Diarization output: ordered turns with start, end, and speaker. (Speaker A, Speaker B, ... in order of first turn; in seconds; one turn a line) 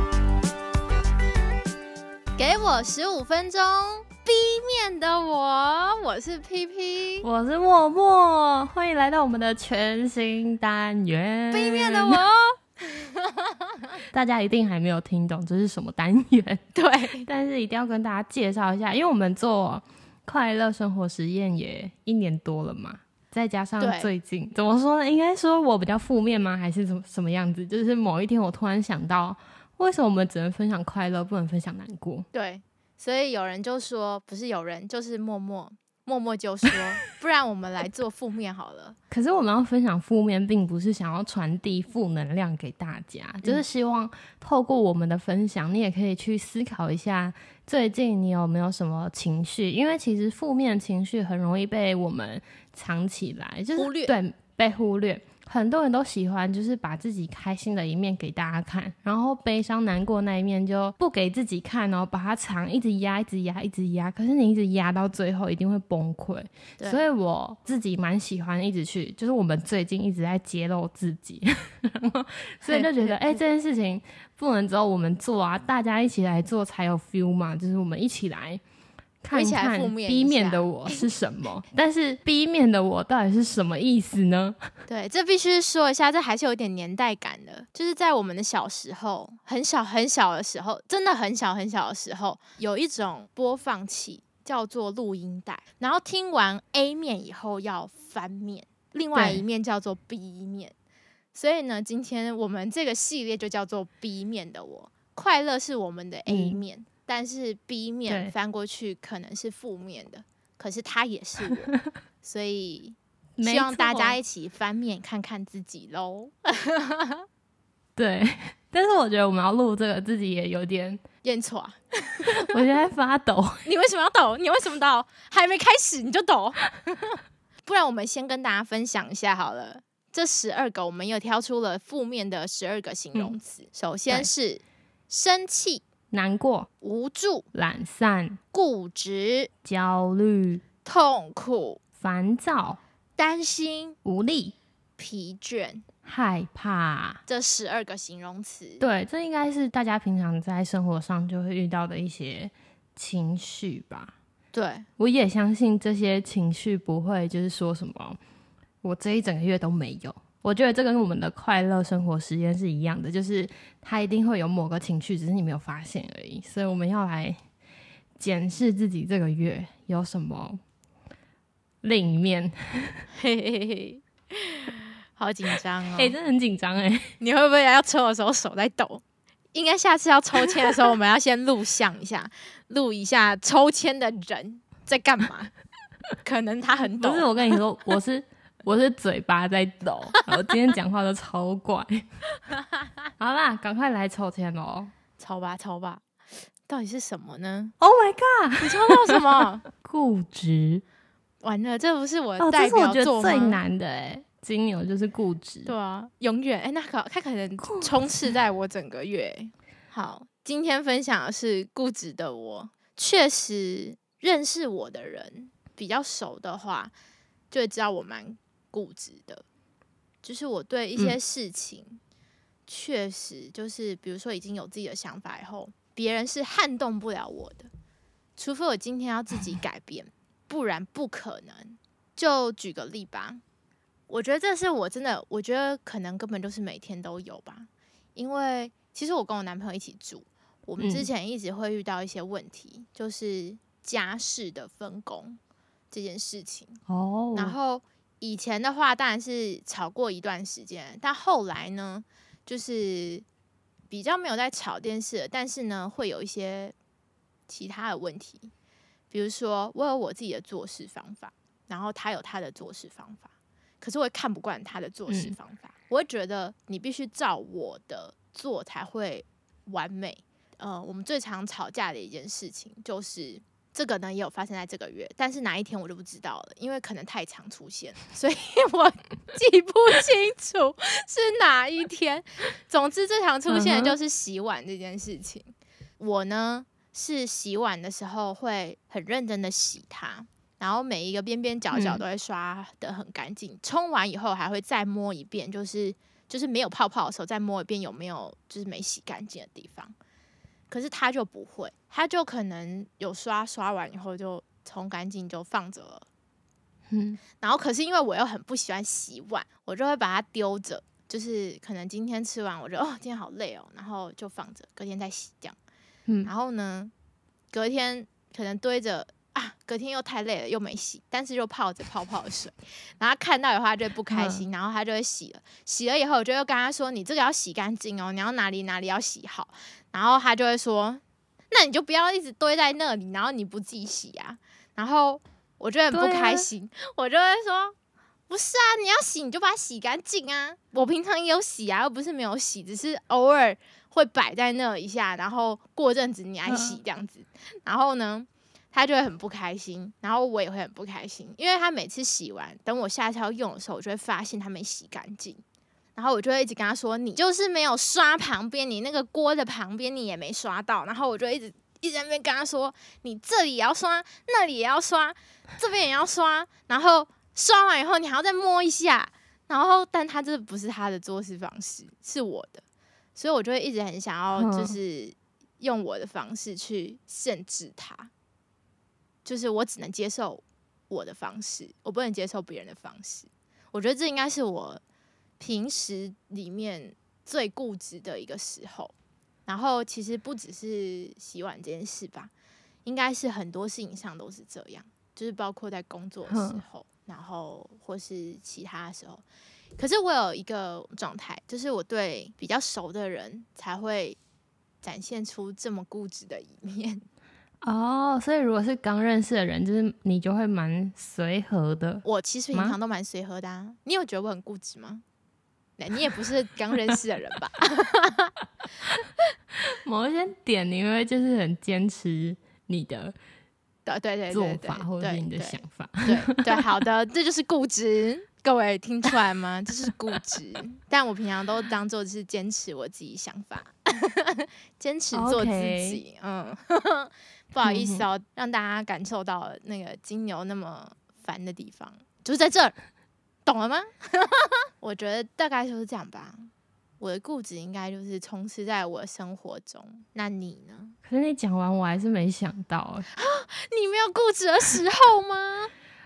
Speaker A: 2.4-7.2
Speaker B: 7.2-12.2
Speaker A: 11.5-13.5
Speaker B: 14.1-16.6
Speaker A: 16.7-17.2
Speaker B: 17.2-32.3
Speaker A: 23.8-24.1
Speaker A: 32.3-39.0
Speaker B: 39.1-78.6
Speaker A: 53.8-54.1
Speaker A: 72.6-73.4
Speaker B: 79.2-84.6
Speaker A: 79.3-81.1
Speaker A: 84.9-100.7
Speaker B: 99.1-99.4
Speaker A: 101.3-117.2
Speaker B: 106.3-106.6
Speaker B: 108.1-108.3
Speaker B: 113.4-114.2
Speaker B: 118.0-121.0
Speaker A: 121.2-122.5
Speaker B: 122.4-123.7
Speaker A: 123.6-135.8
Speaker B: 136.1-136.7
Speaker A: 136.8-137.4
Speaker B: 137.5-138.4
Speaker A: 138.5-139.5
Speaker B: 139.6-140.6
Speaker A: 140.8-141.8
Speaker B: 142.0-142.8
Speaker A: 143.2-143.9
Speaker B: 144.0-144.5
Speaker A: 145.0-145.8
Speaker B: 146.0-147.2
Speaker A: 147.2-148.8
Speaker B: 148.8-154.1
Speaker A: 154.5-154.9
Speaker B: 155.0-158.2
Speaker B: 158.8-167.4
Speaker B: 168.2-170.6
Speaker B: 171.8-173.1
Speaker A: 173.2-176.2
Speaker B: 175.9-177.1
Speaker A: 177.2-185.5
Speaker A: 186.2-187.6
Speaker B: 186.9-192.0
Speaker B: 193.2-194.9
Speaker A: 195.2-196.0
Speaker A: 196.6-197.7
Speaker B: 197.8-199.0
Speaker A: 198.6-199.7
Speaker B: 199.8-200.8
Speaker A: 201.4-203.6
Speaker B: 202.4-205.7
Speaker A: 205.7-216.9
Speaker B: 207.6-207.9
Speaker A: 217.5-219.4
Speaker A: 220.2-222.0
Speaker A: 222.7-227.7
Speaker A: 228.3-233.4
Speaker A: 234.1-245.4
Speaker B: 240.8-241.1
Speaker A: 245.9-246.8
Speaker B: 246.9-247.5
Speaker A: 247.3-253.2
Speaker A: 253.9-256.7
Speaker A: 257.5-258.5
Speaker A: 259.1-263.3
Speaker A: 263.8-299.9
Speaker B: 265.1-265.4
Speaker B: 283.5-283.9
Speaker B: 291.7-292.0
Speaker A: 300.7-306.1
Speaker B: 306.9-307.2
Speaker A: 307.4-315.6
Speaker A: 316.2-316.9
Speaker A: 317.5-337.7
Speaker B: 324.1-324.4
Speaker B: 335.9-336.5
Speaker A: 338.3-355.4
Speaker B: 346.4-346.8
Speaker A: 355.9-372.6
Speaker A: 373.1-378.1
Speaker B: 374.3-374.8
Speaker A: 379.2-384.8
Speaker A: 385.4-388.9
Speaker A: 389.5-392.3
Speaker A: 392.8-399.2
Speaker B: 396.3-396.6
Speaker A: 399.8-404.2
Speaker A: 404.8-407.0
Speaker B: 407.6-412.8
Speaker A: 412.0-415.0
Speaker A: 415.8-418.3
Speaker B: 419.8-423.1
Speaker A: 423.9-442.7
Speaker B: 424.3-426.4
Speaker B: 435.1-436.0
Speaker B: 437.6-438.0
Speaker A: 443.4-450.9
Speaker B: 451.0-453.1
Speaker A: 453.1-455.7